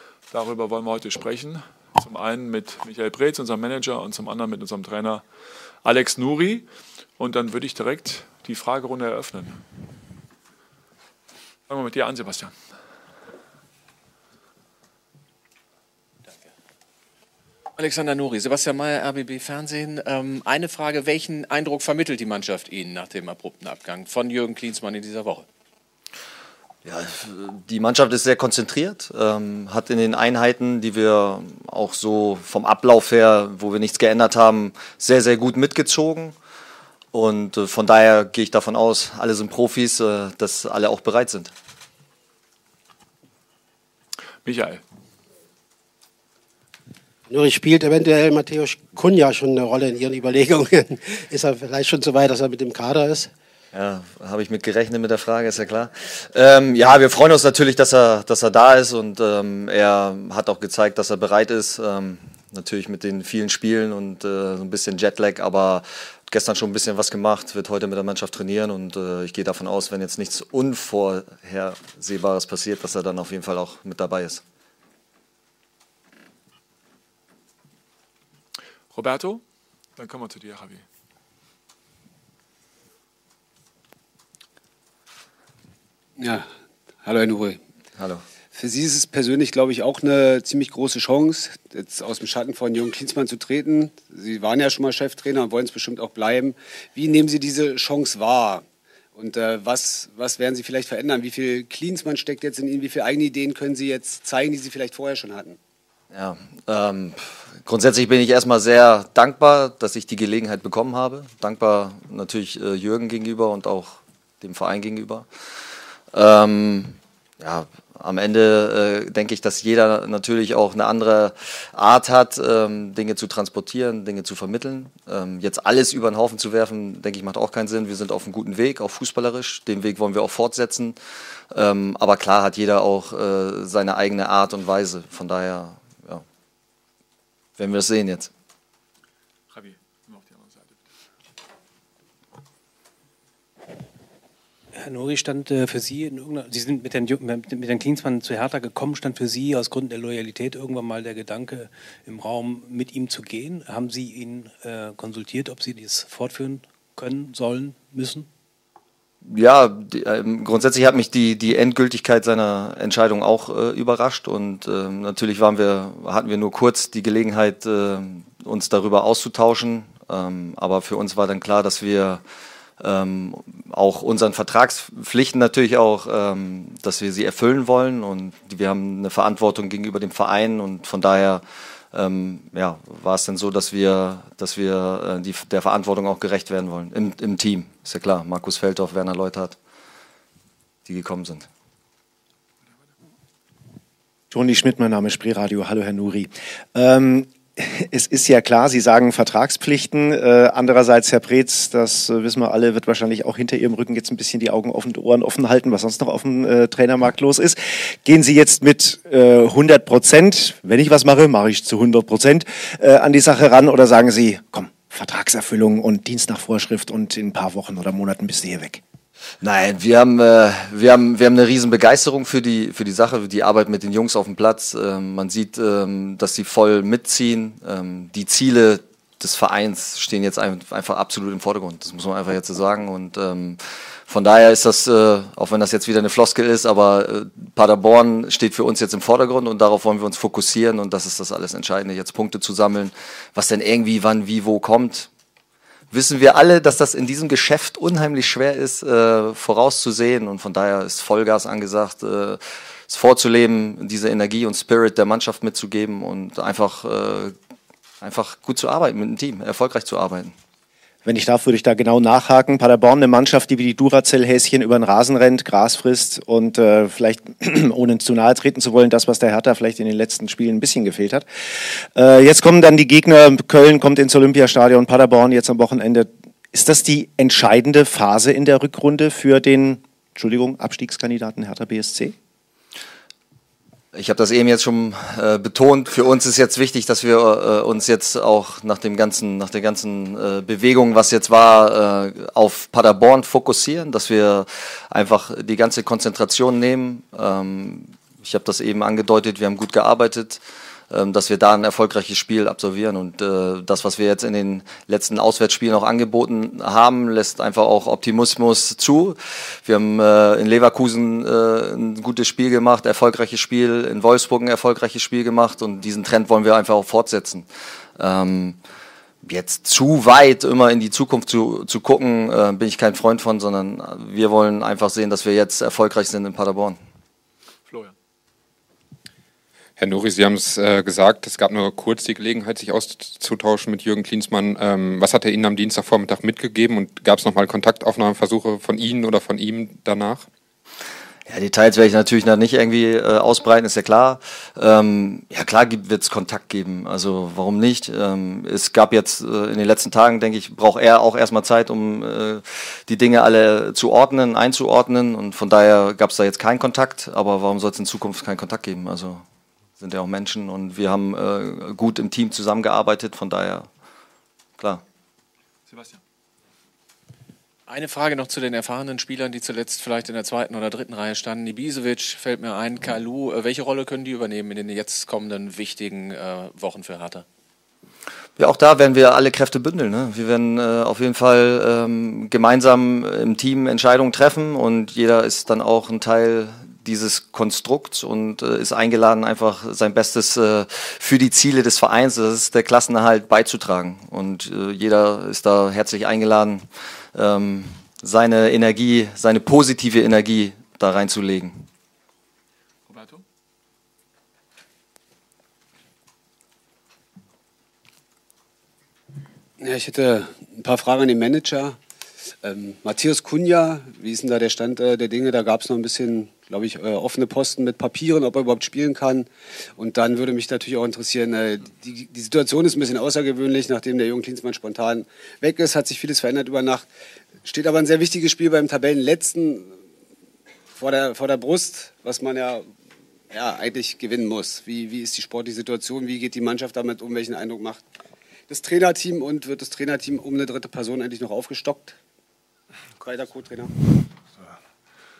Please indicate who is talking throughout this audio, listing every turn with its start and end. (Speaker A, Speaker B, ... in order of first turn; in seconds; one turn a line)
Speaker A: 0.3-5.2
Speaker A: 5.8-6.7
Speaker A: 7.2-9.6
Speaker A: 11.7-12.5
Speaker B: 17.8-25.4
Speaker C: 26.8-36.4
Speaker C: 37.1-41.5
Speaker A: 44.4-44.8
Speaker D: 47.3-53.3
Speaker C: 53.7-74.4
Speaker A: 78.9-79.4
Speaker A: 80.0-80.8
Speaker E: 86.2-86.5
Speaker E: 87.0-87.6
Speaker C: 88.0-88.2
Speaker E: 88.5-105.6
Speaker C: 106.1-115.2
Speaker C: 116.1-131.0
Speaker C: 131.5-136.2
Speaker C: 137.6-138.3
Speaker A: 139.5-140.6
Speaker F: 144.7-158.3
Speaker C: 159.2-172.2
Speaker C: 172.8-189.6
Speaker C: 190.8-191.5
Speaker G: 194.3-218.8
Speaker C: 219.4-245.1
Speaker C: 245.9-257.3
Speaker C: 258.0-260.3
Speaker G: 261.0-271.2
Speaker G: 271.9-282.1
Speaker C: 283.9-318.6
Speaker C: 319.2-326.8
Speaker A: 327.7-327.9
Speaker H: 329.8-340.3
Speaker C: 341.3-359.2
Speaker C: 359.8-363.7
Speaker A: 365.7-366.0
Speaker B: 367.7-377.2
Speaker C: 378.4-401.6
Speaker A: 402.9-403.2
Speaker E: 409.6-411.8
Speaker E: 412.4-426.9
Speaker E: 427.4-429.7
Speaker E: 430.7-432.7
Speaker E: 433.3-437.8
Speaker E: 438.5-442.0
Speaker E: 443.0-444.0